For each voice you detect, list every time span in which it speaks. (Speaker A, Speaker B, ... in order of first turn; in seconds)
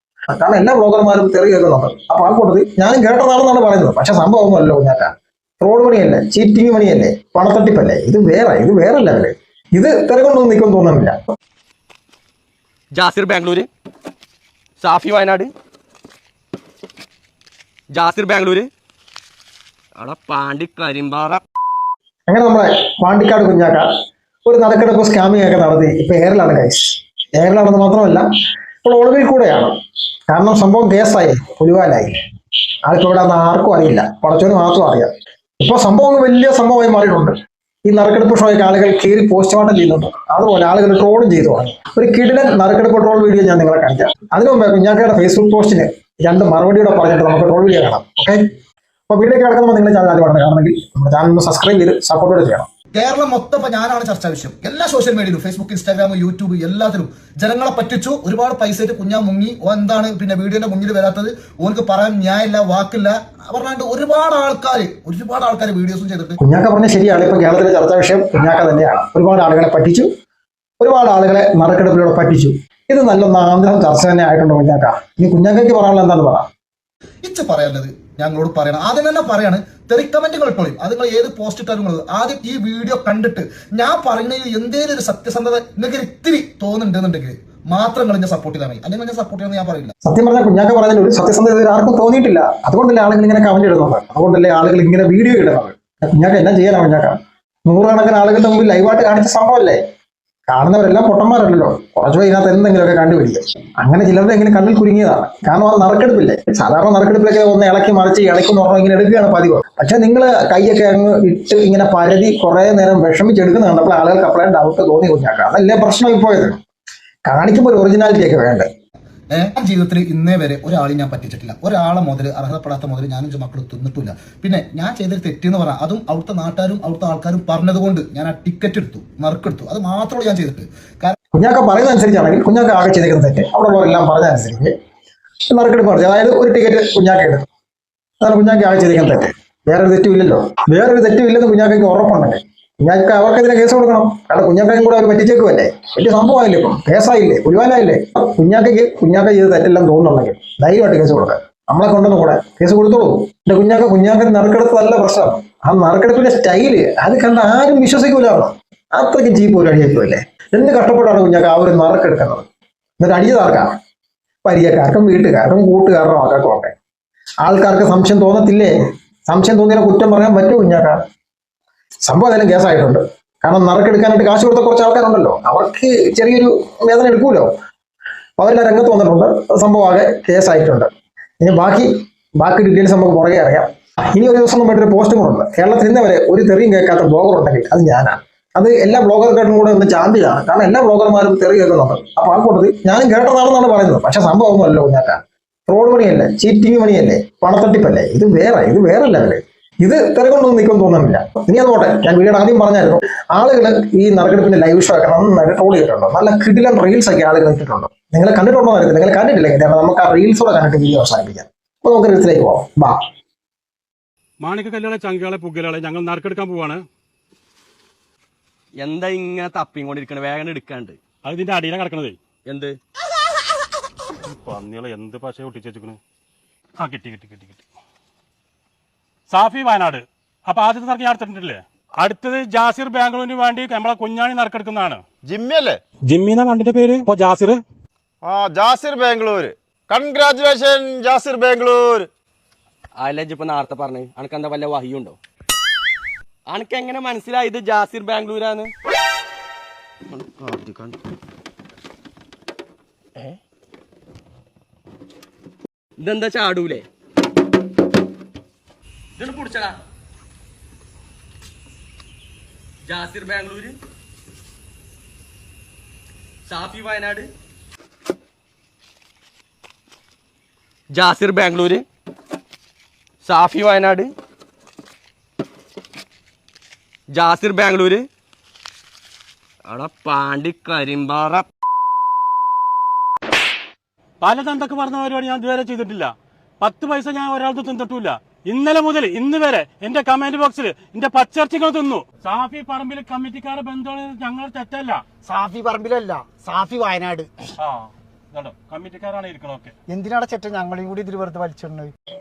Speaker A: 0.3-11.2, 22.3-23.9, 24.5-28.2, 28.8-29.7, 30.3-32.2, 32.9-37.4, 37.9-48.5, 49.1-52.7, 66.4-70.1, 70.8-76.5, 90.0-97.2, 97.7-99.8, 100.5-116.6, 117.3-118.7, 131.4-134.7, 135.5-137.5, 138.2-162.5, 163.0-163.7, 164.4-166.7, 167.4-168.8, 169.3-171.1, 172.1-177.5, 178.4-213.0
Speaker B: 13.0-13.7, 14.8-15.5, 17.9-18.7, 20.0-21.4, 218.8-221.0, 222.5-222.8, 243.0-245.2, 246.5-248.7, 250.1-251.0, 256.0-256.9, 259.2-259.8, 262.9-263.8, 266.5-267.3, 270.9-271.9, 273.2-274.1, 277.1-278.1, 279.7-281.5
Speaker C: 52.9-66.4, 77.2-89.9, 119.3-131.2
Speaker D: 214.4-216.8, 221.2-222.2, 224.3-226.0, 226.8-227.6, 229.3-235.0, 236.1-237.6, 284.2-295.0, 297.6-299.7
Speaker E: 235.2-235.8, 238.2-242.1
Speaker F: 295.2-297.3, 299.9-301.9